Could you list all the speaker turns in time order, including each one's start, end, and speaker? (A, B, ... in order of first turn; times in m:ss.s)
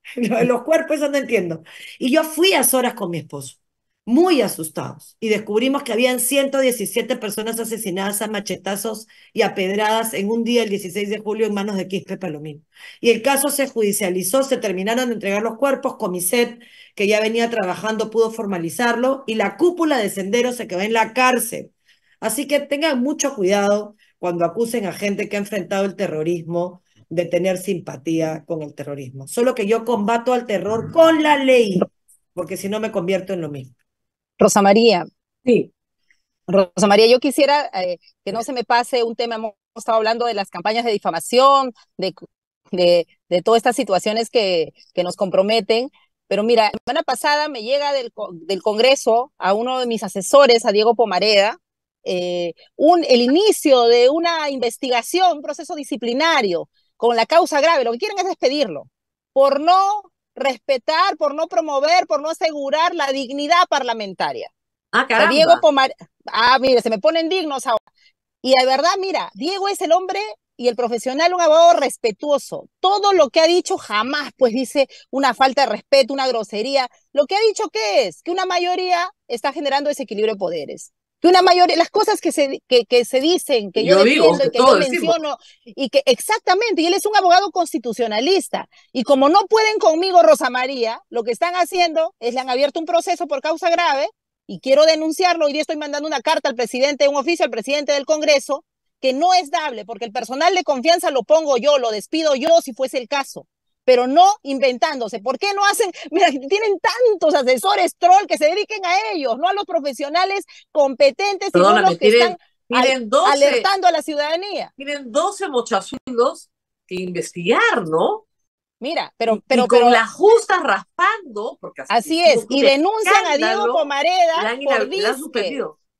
0:00.2-0:33.7 A
0:34.4-0:35.1 B
0:36.5-0:42.2 B
0:42.7-1:04.5 B
1:04.9-1:05.6 C
1:05.2-1:07.8 B
1:08.4-1:54.7 B
1:23.8-1:25.2 C
1:51.5-1:53.7 C
1:54.8-1:58.2 C
1:58.8-2:00.0 B
1:59.3-2:05.8 C
2:01.9-2:05.6 B